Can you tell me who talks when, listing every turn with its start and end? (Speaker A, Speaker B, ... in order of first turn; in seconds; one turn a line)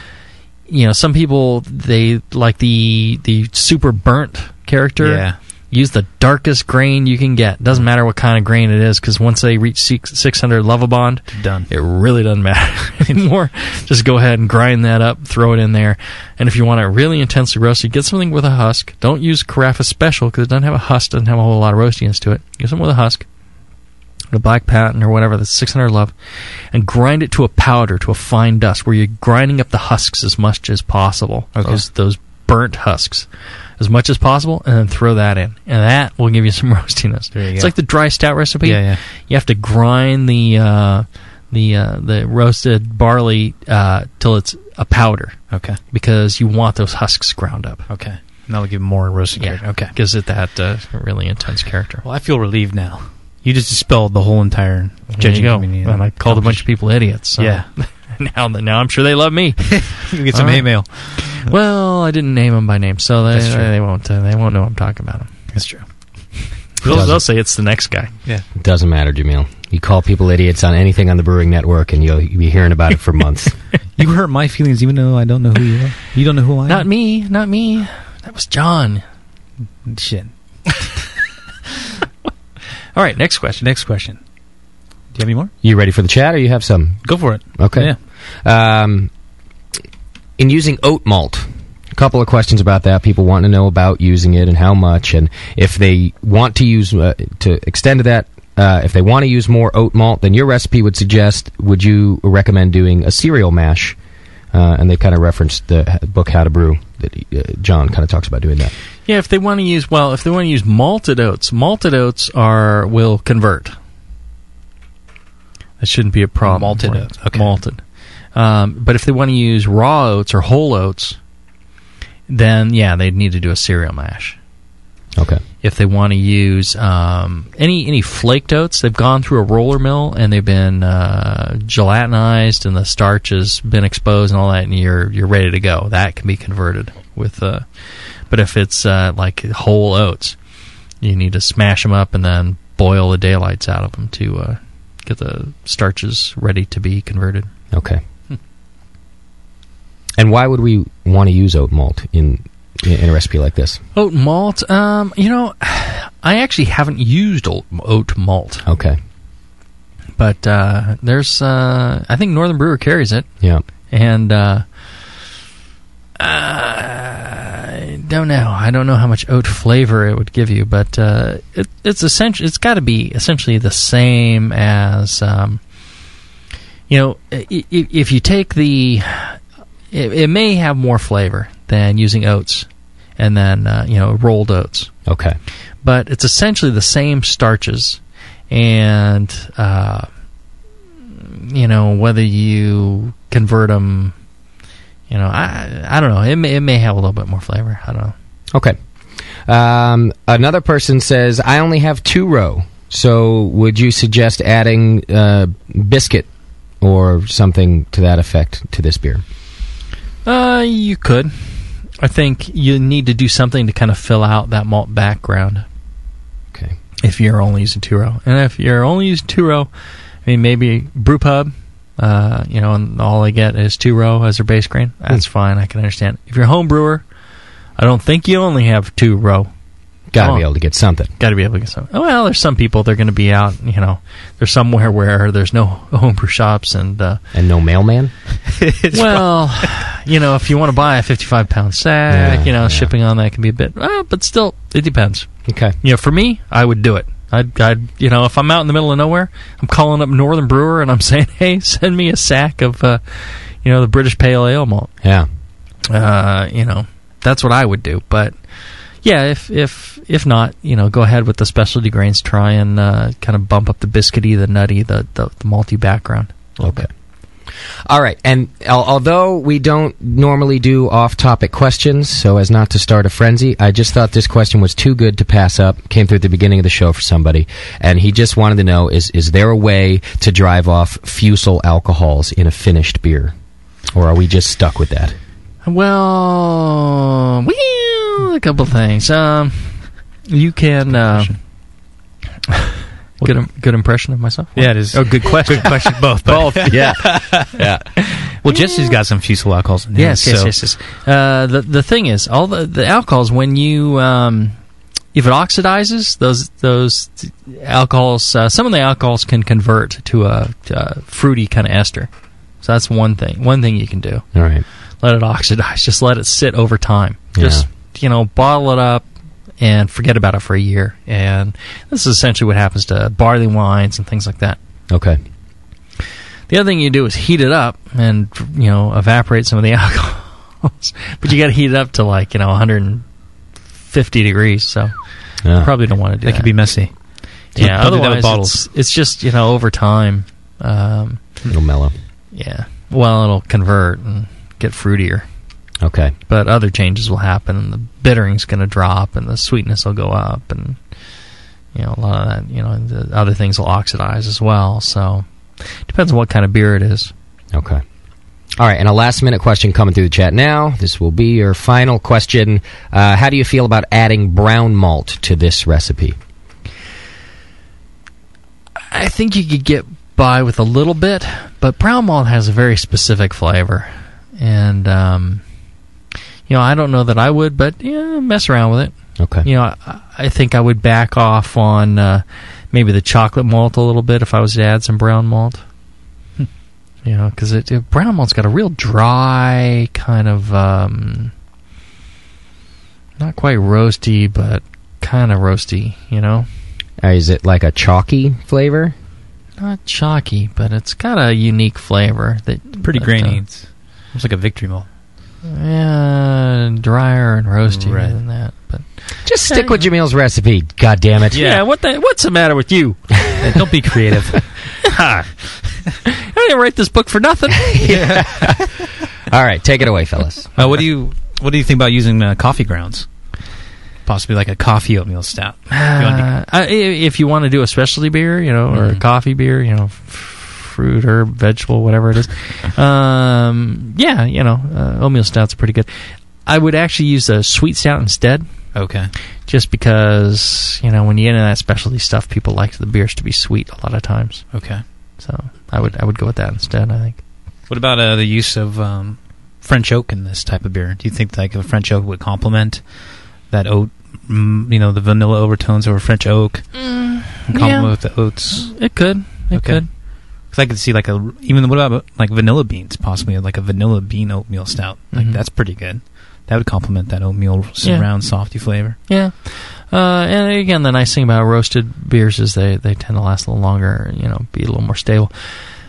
Speaker A: 0.7-23.2
Speaker B: 5.0-5.4
Speaker B: 11.3-11.7
Speaker A: 24.3-26.1
Speaker A: 26.7-45.4
Speaker B: 31.5-31.9
Speaker B: 37.3-37.8
Speaker B: 38.6-39.0
Speaker B: 45.5-45.8
Speaker A: 45.9-47.9
Speaker B: 47.9-49.9
Speaker A: 49.4-52.0
Speaker B: 52.0-57.7
Speaker A: 55.1-65.3
Speaker B: 59.7-61.5
Speaker B: 63.3-63.7
Speaker B: 65.5-65.8
Speaker B: 66.8-67.3
Speaker A: 66.8-68.1
Speaker C: 68.5-73.6
Speaker B: 74.0-76.9
Speaker A: 76.7-79.0
Speaker B: 79.8-80.8
Speaker A: 82.9-83.6
Speaker B: 83.6-84.2
Speaker B: 85.1-85.5
Speaker C: 85.6-89.1
Speaker B: 87.0-88.0
Speaker C: 90.4-104.0
Speaker C: 104.5-108.7
Speaker A: 109.1-113.7
Speaker A: 115.8-117.8
Speaker B: 116.4-117.6
Speaker A: 118.3-121.2
Speaker A: 122.3-124.4
Speaker C: 125.2-125.4
Speaker A: 125.6-137.7
Speaker A: 138.2-140.3
Speaker A: 141.0-147.5
Speaker C: 147.7-148.0
Speaker C: 150.2-153.8
Speaker A: 153.9-158.7
Speaker C: 158.7-159.0
Speaker A: 160.2-164.6
Speaker A: 166.2-175.6
Speaker A: 176.9-179.4
Speaker A: 179.9-184.9
Speaker C: 185.1-185.4
Speaker A: 185.8-190.1
Speaker A: 191.1-194.1
Speaker A: 195.1-198.1
Speaker C: 199.4-206.3
Speaker C: 206.8-209.2
Speaker A: 210.2-215.6
Speaker A: 217.0-219.7
Speaker A: 220.2-227.0
Speaker A: 227.8-229.5
Speaker C: 230.1-231.1
Speaker A: 230.2-230.5
Speaker A: 231.2-237.2
Speaker C: 237.3-238.1
Speaker B: 238.6-239.2
Speaker A: 238.9-245.3
Speaker C: 242.1-242.9
Speaker C: 245.5-245.8
Speaker A: 245.8-254.9
Speaker C: 255.0-255.3
Speaker A: 255.9-258.4
Speaker A: 259.0-266.9
Speaker C: 267.9-283.3
Speaker C: 283.9-285.1
Speaker A: 285.6-291.4
Speaker B: 290.9-291.4
Speaker A: 293.2-296.6
Speaker B: 294.5-297.7
Speaker C: 296.3-297.9
Speaker B: 298.3-300.8
Speaker A: 299.9-304.6
Speaker A: 305.1-312.1
Speaker A: 312.6-314.3
Speaker C: 314.3-314.6
Speaker A: 315.0-319.1
Speaker C: 317.3-317.6
Speaker A: 319.6-324.6
Speaker C: 324.9-325.2
Speaker A: 326.5-333.1
Speaker A: 333.8-334.9
Speaker C: 335.4-335.7
Speaker A: 335.5-336.8
Speaker B: 336.2-338.6
Speaker A: 337.5-341.2
Speaker C: 341.5-341.9
Speaker A: 342.3-345.2
Speaker C: 345.8-346.1
Speaker A: 346.3-350.8
Speaker A: 351.7-355.2
Speaker A: 355.8-357.1
Speaker C: 357.5-357.8
Speaker C: 358.6-366.1
Speaker A: 368.9-375.4
Speaker A: 376.5-385.6
Speaker C: 379.2-379.5
Speaker A: 387.0-391.3
Speaker A: 393.2-396.5
Speaker C: 397.0-398.9
Speaker A: 399.6-403.4
Speaker B: 402.8-404.9
Speaker A: 405.4-409.9
Speaker B: 407.7-408.2
Speaker C: 409.2-411.4
Speaker B: 411.3-411.6
Speaker A: 411.3-413.4
Speaker B: 413.4-414.5
Speaker A: 414.8-415.3
Speaker A: 416.2-418.2
Speaker B: 417.8-418.7
Speaker C: 419.3-420.5
Speaker B: 420.6-423.1
Speaker B: 424.0-426.3
Speaker A: 425.7-435.9
Speaker B: 428.7-429.0
Speaker A: 436.4-438.4
Speaker B: 438.7-439.1
Speaker A: 439.5-447.2
Speaker B: 444.5-444.8
Speaker B: 447.7-452.9
Speaker B: 453.4-458.9
Speaker A: 456.7-459.9
Speaker B: 459.5-469.0
Speaker A: 465.1-465.4
Speaker A: 467.8-468.4
Speaker A: 469.1-475.3